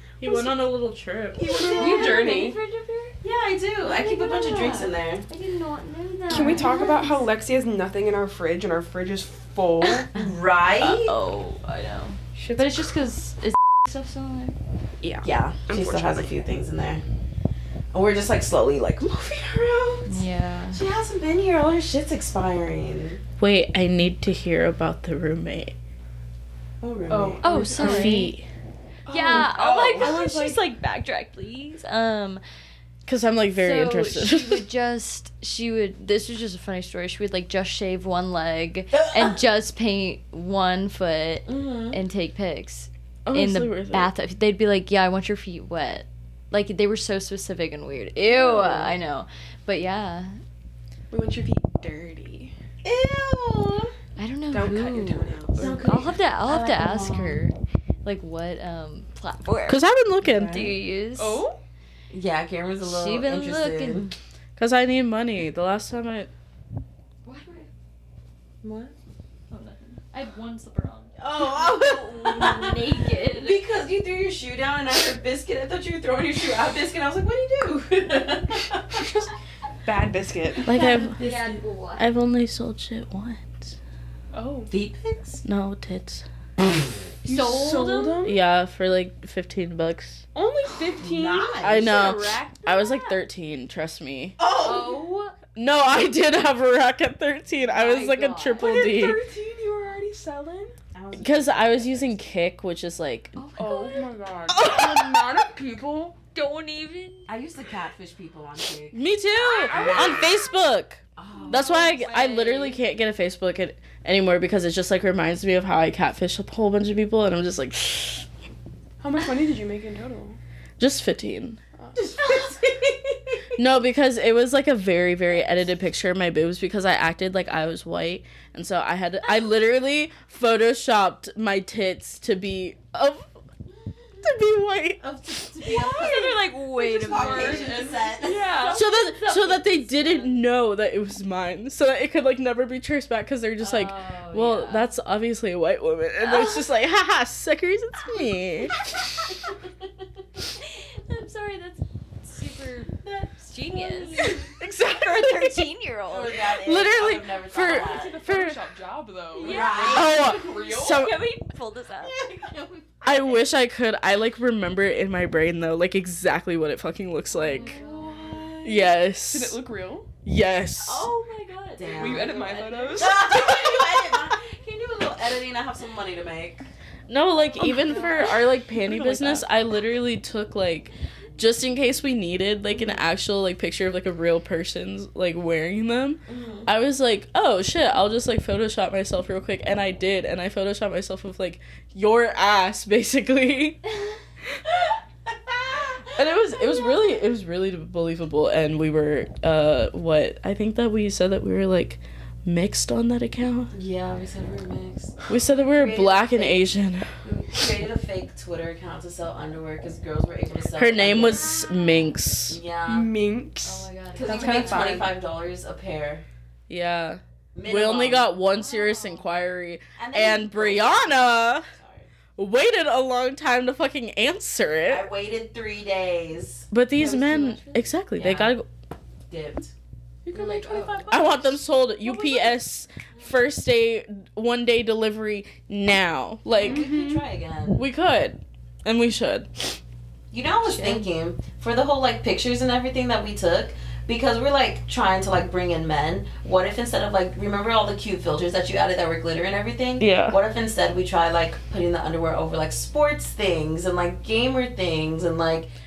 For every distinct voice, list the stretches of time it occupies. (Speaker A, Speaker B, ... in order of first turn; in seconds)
Speaker A: 0.2-1.4, 23.4-25.7, 27.7-28.5, 33.0-34.6, 43.2-44.1, 59.7-60.7, 64.6-66.3, 80.6-83.8, 85.4-86.2, 88.2-90.2, 91.6-94.4, 95.5-99.2, 101.1-103.3, 104.5-105.2, 108.9-118.2, 120.8-121.6, 123.6-133.3, 134.2-135.0, 138.7-148.9, 154.3-155.7, 156.6-158.6, 159.8-161.2, 163.0-167.8, 168.6-169.6, 170.2-171.1, 177.1-193.8, 196.1-203.7, 205.3-207.1, 210.7-212.6, 216.7-221.7, 222.4-225.1, 226.7-228.7, 231.1-236.8, 237.7-239.8, 250.0-250.4
Speaker B: 1.3-2.3, 3.2-5.2, 10.1-11.1, 15.2-17.0, 17.9-23.2, 26.8-27.4, 29.8-30.1, 38.9-39.4, 41.5-42.0, 48.3-49.0, 52.8-53.9, 55.6-57.4, 60.2-60.7, 62.1-64.1, 68.6-68.9, 71.2-79.1, 80.8-81.6, 84.7-85.4, 91.0-92.0, 94.4-95.1, 100.9-102.2, 107.3-109.0, 109.7-110.3, 111.2-111.8, 121.9-123.4, 135.0-138.5, 153.7-154.5, 156.1-158.2, 159.4-160.4, 162.0-163.1, 167.7-168.9, 171.8-172.3, 172.9-176.6, 186.3-186.7, 195.3-196.1, 203.7-205.2, 205.7-211.7, 212.5-213.1, 214.1-216.2, 217.5-218.3, 220.0-222.1, 224.9-228.6, 229.3-229.7, 230.3-231.4, 236.6-237.8, 240.3-255.7
Speaker C: 1.4-2.6, 6.3-10.1, 12.3-12.9, 15.0-16.3, 27.1-28.1, 29.1-30.6, 51.1-52.5, 54.5-55.9, 61.1-61.6, 79.8-80.7, 84.3-84.7, 87.2-88.4, 90.3-93.1, 98.6-100.7, 103.6-106.2, 109.4-110.3, 119.0-120.4, 137.0-138.8, 157.6-161.1, 169.3-170.1, 171.9-173.2, 212.9-215.1, 230.3-231.2, 232.1-232.4, 236.6-237.2
Speaker D: 1.6-3.2, 3.8-7.2, 10.0-14.6, 20.1-20.8, 27.4-28.3, 29.1-32.4, 33.5-50.4, 54.2-61.4, 62.8-64.1, 67.2-67.7, 69.5-73.6, 80.7-82.0, 87.2-88.2, 94.6-95.3, 97.5-98.7, 103.3-104.1, 106.3-107.3, 111.4-112.8, 135.6-140.4, 143.6-144.9, 146.2-146.6, 148.8-149.1, 150.6-156.4, 159.3-162.4, 167.3-168.6, 170.8-174.2, 177.6-178.3, 211.3-211.9, 213.6-215.1, 218.4-219.3, 227.0-227.6, 230.3-231.2, 240.7-241.0